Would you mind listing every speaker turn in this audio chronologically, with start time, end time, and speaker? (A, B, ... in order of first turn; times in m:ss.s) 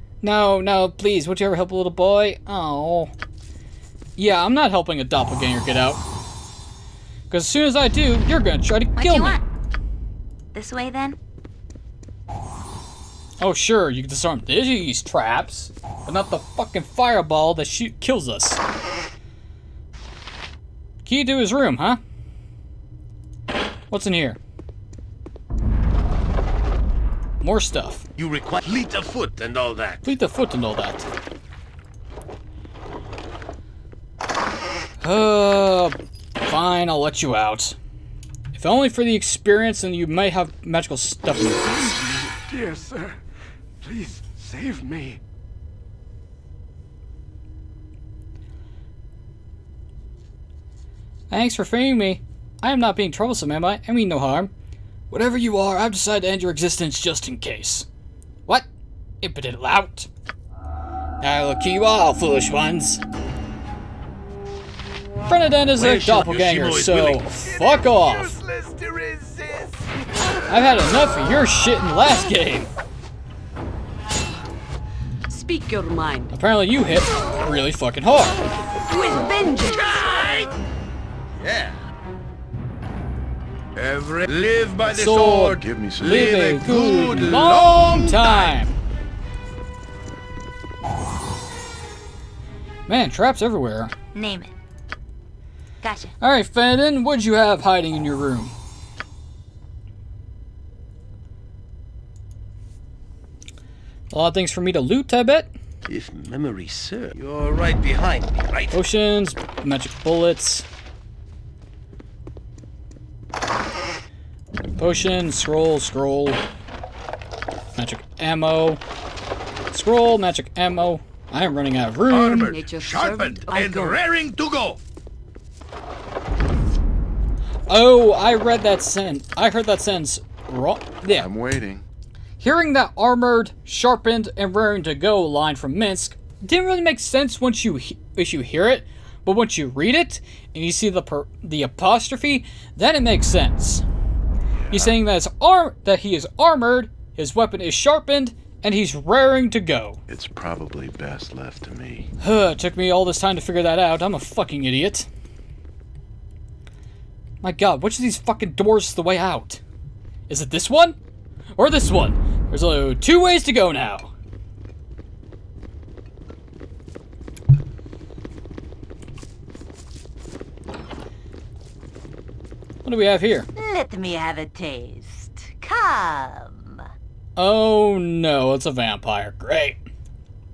0:00.2-0:03.1 A
0:04.2-0:06.0 A
0:07.3-0:09.4 A
0:09.0-0:09.4 B
0:10.5-0:11.2 B
0:13.4-0:18.6 A
0:21.0-0:22.0 A
0:23.9-0:24.4 A
0:27.4-0:28.1 A
0:28.2-0:30.1 C
0:30.0-0:31.1 A
0:35.0-0:37.8 A
0:38.5-0:41.9 A
0:41.8-0:43.2 D
0:43.8-0:45.2 D
0:51.3-0:54.5 A
0:55.1-0:57.8 A
0:59.2-1:00.1 A
1:01.2-1:03.0 A
1:05.3-1:08.4 A
1:05.8-1:07.3 C
1:07.4-1:09.8 D
1:10.5-1:12.7 A
1:15.3-1:16.3 E
1:16.3-1:18.4 A
1:18.9-1:20.0 E
1:21.4-1:21.8 C
1:23.8-1:28.6 F
1:24.8-1:28.7 A
1:25.6-1:26.5 G
1:32.9-1:33.9 A
1:34.1-1:34.5 B
1:35.8-1:36.1 B
1:36.2-1:38.5 A
1:44.1-1:45.5 A
1:45.9-1:48.8 C
1:48.7-1:50.6 A
1:54.8-1:56.4 A
1:57.8-1:58.8 A
1:59.7-2:02.5 A
2:02.1-2:04.8 F
2:02.4-2:04.0 E
2:07.7-2:11.3 A
2:11.1-2:11.8 G
2:12.4-2:23.8 A
2:24.5-2:25.0 G
2:24.7-2:30.0 A
2:30.1-2:32.1 G
2:32.2-2:35.1 A
2:37.4-2:39.6 A
2:40.3-2:41.0 A
2:41.6-2:44.1 A
2:52.8-2:53.5 A
2:53.6-2:56.8 H
2:57.4-2:59.8 A